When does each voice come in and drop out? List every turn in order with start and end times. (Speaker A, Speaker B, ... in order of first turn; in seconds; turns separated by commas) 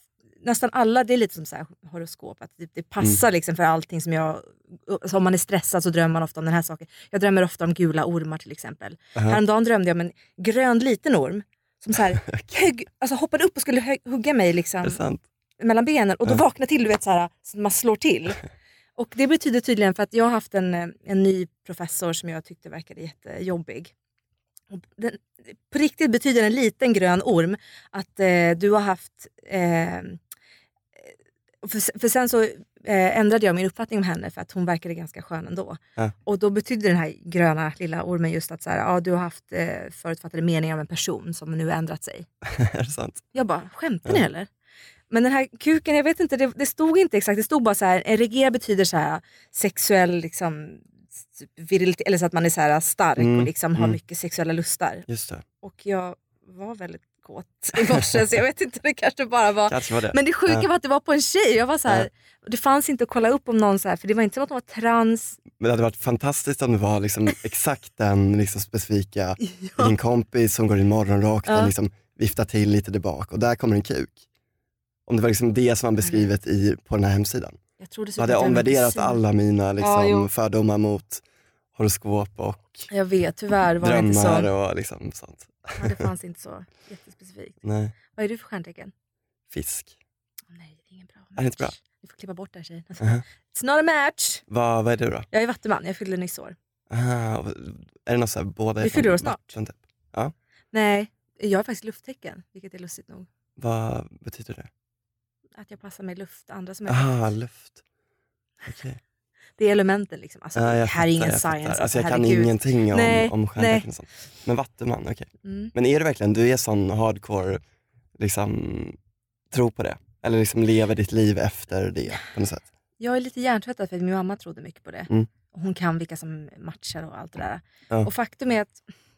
Speaker A: 0.4-15.0, Speaker B: 14.8-15.2, Speaker A: 15.6-18.4, Speaker A: 19.0-23.9, Speaker A: 24.7-30.2, Speaker A: 31.6-42.3, Speaker B: 42.5-43.2, Speaker A: 43.3-44.5, Speaker A: 45.1-50.8, Speaker A: 51.4-55.1, Speaker B: 53.2-54.0, Speaker B: 55.1-55.4, Speaker A: 55.6-65.4, Speaker B: 59.7-60.7, Speaker B: 65.6-74.2, Speaker A: 69.4-69.9, Speaker A: 71.5-71.7, Speaker B: 75.1-77.6, Speaker A: 76.0-76.3, Speaker A: 77.8-79.2, Speaker B: 78.2-81.2, Speaker A: 79.8-80.3, Speaker B: 81.8-82.9, Speaker A: 82.9-84.5, Speaker B: 83.8-86.0, Speaker A: 85.8-88.9, Speaker B: 87.7-87.9, Speaker B: 89.5-90.0, Speaker A: 90.5-94.4, Speaker B: 91.4-91.7, Speaker B: 94.5-95.3, Speaker A: 95.3-96.5, Speaker B: 96.9-100.3, Speaker A: 98.8-99.6, Speaker A: 100.7-103.3, Speaker B: 103.6-104.7, Speaker A: 105.5-107.1, Speaker B: 106.9-107.8, Speaker B: 108.7-109.0, Speaker A: 109.6-113.9, Speaker B: 110.5-117.6, Speaker A: 115.5-115.7, Speaker B: 118.2-119.0, Speaker B: 119.5-122.7, Speaker A: 123.0-128.8